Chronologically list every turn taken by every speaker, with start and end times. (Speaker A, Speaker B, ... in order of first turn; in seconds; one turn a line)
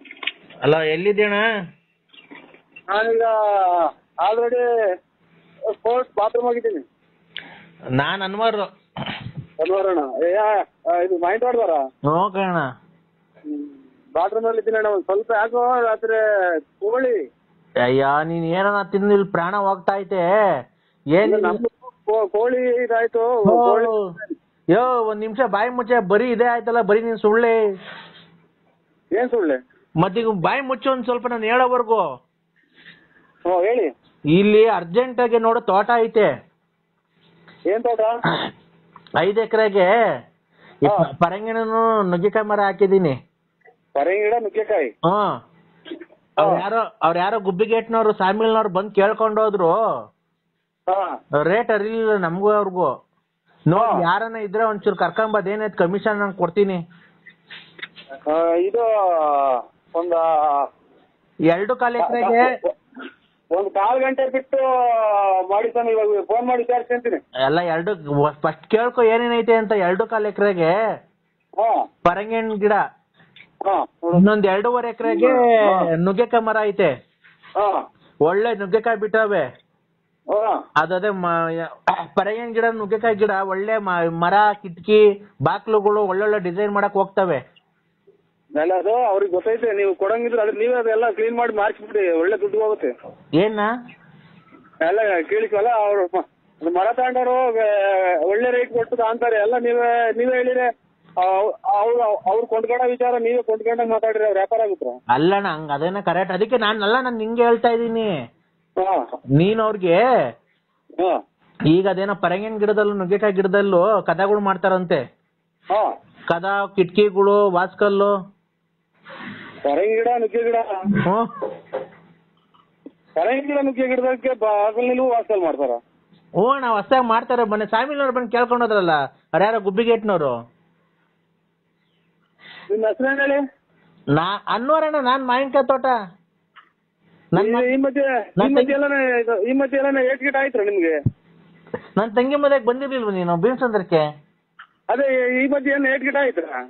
Speaker A: 0.6-1.4
Speaker B: 2.9-4.6
Speaker B: 5.8-6.8
Speaker A: 8.0-8.7
Speaker B: 9.6-11.8
Speaker A: 12.1-12.7
Speaker B: 13.5-16.2
Speaker B: 16.8-17.2
Speaker A: 17.9-20.2
Speaker A: 21.1-21.6
Speaker B: 21.2-23.9
Speaker A: 23.4-24.0
Speaker A: 24.8-27.6
Speaker B: 29.1-29.6
Speaker A: 30.0-32.0
Speaker B: 33.5-33.9
Speaker A: 34.3-36.3
Speaker B: 37.7-38.2
Speaker A: 39.2-39.9
Speaker A: 40.9-43.2
Speaker B: 44.0-44.9
Speaker A: 46.4-49.7
Speaker A: 51.4-52.9
Speaker A: 53.7-56.8
Speaker B: 53.7-54.0
Speaker B: 58.3-60.6
Speaker A: 61.5-62.5
Speaker B: 62.0-62.5
Speaker B: 63.5-67.2
Speaker A: 67.5-70.7
Speaker A: 72.0-72.8
Speaker B: 73.6-74.2
Speaker A: 74.1-76.9
Speaker B: 75.0-75.9
Speaker A: 78.2-79.4
Speaker B: 80.3-80.6
Speaker A: 80.8-87.4
Speaker B: 88.5-92.9
Speaker A: 93.4-93.7
Speaker B: 94.8-100.7
Speaker B: 101.2-105.0
Speaker A: 105.1-108.1
Speaker A: 109.4-110.0
Speaker A: 111.7-115.0
Speaker A: 116.3-118.1
Speaker B: 119.6-120.6
Speaker A: 121.0-121.3
Speaker B: 123.2-125.8
Speaker A: 126.4-130.3
Speaker B: 132.7-133.4
Speaker A: 134.2-135.9
Speaker A: 137.3-137.7
Speaker B: 137.4-140.9
Speaker A: 138.4-138.7
Speaker A: 142.0-144.1
Speaker B: 144.9-146.5